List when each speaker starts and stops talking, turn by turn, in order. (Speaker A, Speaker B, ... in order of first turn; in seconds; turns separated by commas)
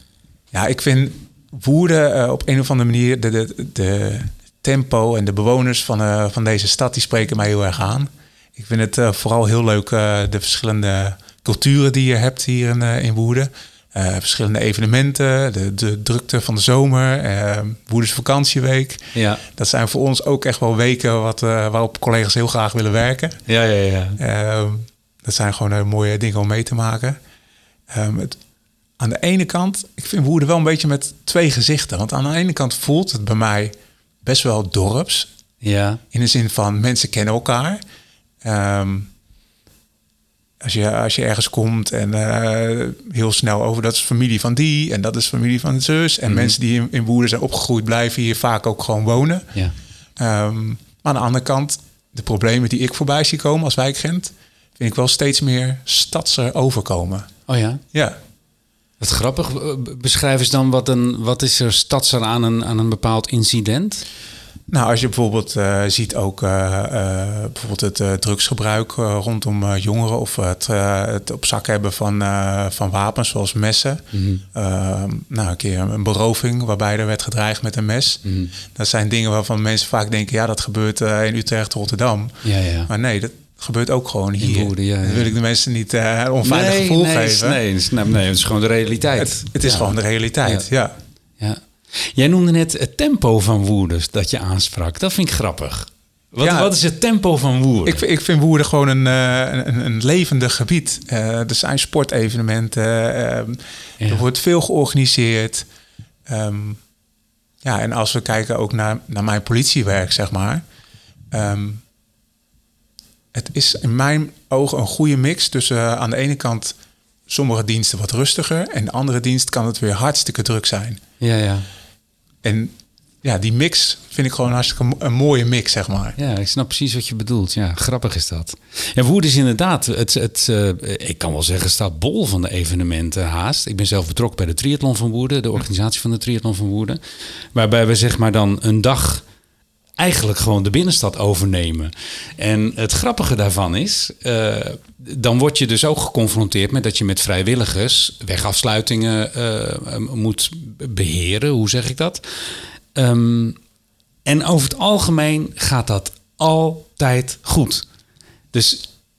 Speaker A: 0.5-23.4, Speaker B: 19.1-19.4, Speaker B: 23.5-24.2, Speaker A: 24.2-27.2, Speaker A: 27.9-28.4, Speaker A: 29.0-35.3, Speaker B: 35.6-36.0, Speaker A: 36.1-37.8, Speaker A: 38.4-39.1, Speaker A: 40.6-49.5, Speaker B: 46.3-46.5, Speaker A: 50.2-57.3, Speaker B: 57.5-57.8, Speaker B: 59.0-64.0, Speaker A: 64.7-87.6, Speaker B: 74.1-74.4, Speaker B: 78.2-78.5, Speaker B: 82.4-82.9, Speaker B: 84.4-85.3, Speaker B: 86.4-89.9, Speaker A: 89.2-91.0, Speaker B: 91.4-98.0, Speaker A: 96.4-96.7, Speaker A: 97.8-105.7, Speaker A: 106.3-106.8, Speaker A: 107.6-110.6, Speaker A: 111.3-111.8, Speaker A: 113.3-116.8, Speaker A: 117.3-121.0, Speaker B: 121.2-121.7, Speaker A: 122.4-126.2, Speaker B: 126.2-139.2, Speaker B: 140.0-153.6, Speaker B: 154.2-157.9, Speaker B: 158.5-158.9